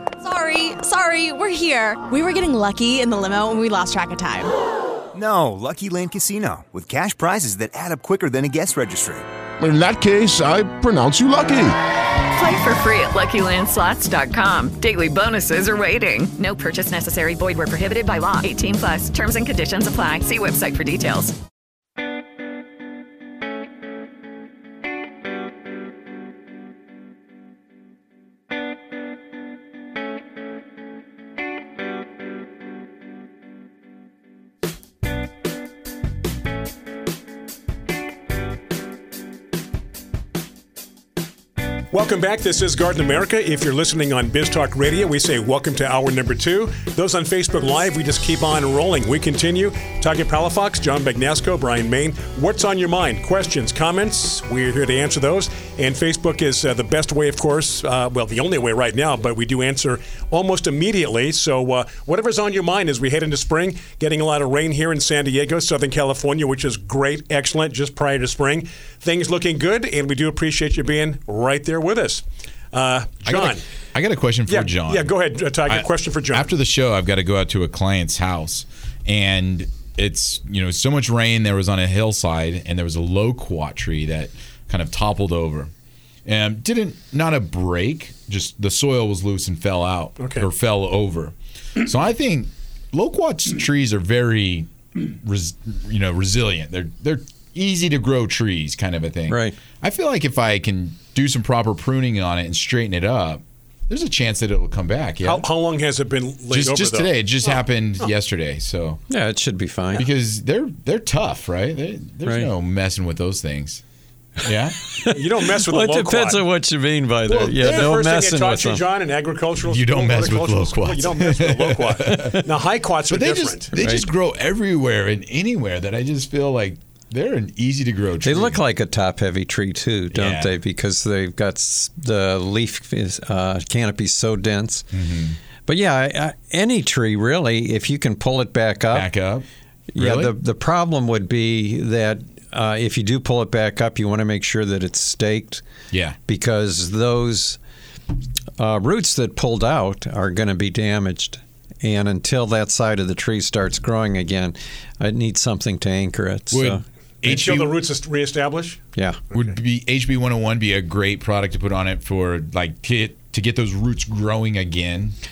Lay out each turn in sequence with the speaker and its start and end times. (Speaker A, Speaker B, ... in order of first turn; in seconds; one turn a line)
Speaker A: 0.2-4.5
Speaker B: 5.1-9.3
Speaker C: 9.6-11.8
Speaker D: 12.3-21.4
Speaker E: 41.9-73.6
Speaker F: 73.3-85.7
Speaker E: 74.5-76.5
Speaker F: 86.3-105.5
Speaker E: 90.2-90.5
Speaker G: 99.3-99.6
Speaker E: 105.2-107.1
Speaker F: 106.5-109.0
Speaker G: 109.1-110.1
Speaker F: 110.0-113.8
Speaker G: 112.2-112.5
Speaker F: 114.4-114.9
Speaker G: 115.0-118.8
Speaker E: 115.1-116.4
Speaker E: 117.3-123.7
Speaker F: 117.6-117.9
Speaker F: 119.6-122.4
Speaker F: 123.1-128.6
Speaker G: 123.8-124.1
Speaker G: 128.2-134.9
Speaker F: 130.1-130.5
Speaker F: 134.9-135.4
Speaker G: 135.7-139.1
Speaker F: 138.9-139.4
Speaker G: 139.9-145.6
Speaker F: 140.0-140.3
Speaker F: 145.9-146.2
Speaker G: 146.3-147.6
Speaker G: 148.6-156.8
Speaker F: 156.5-157.8
Speaker E: 157.2-158.8
Speaker F: 159.3-165.2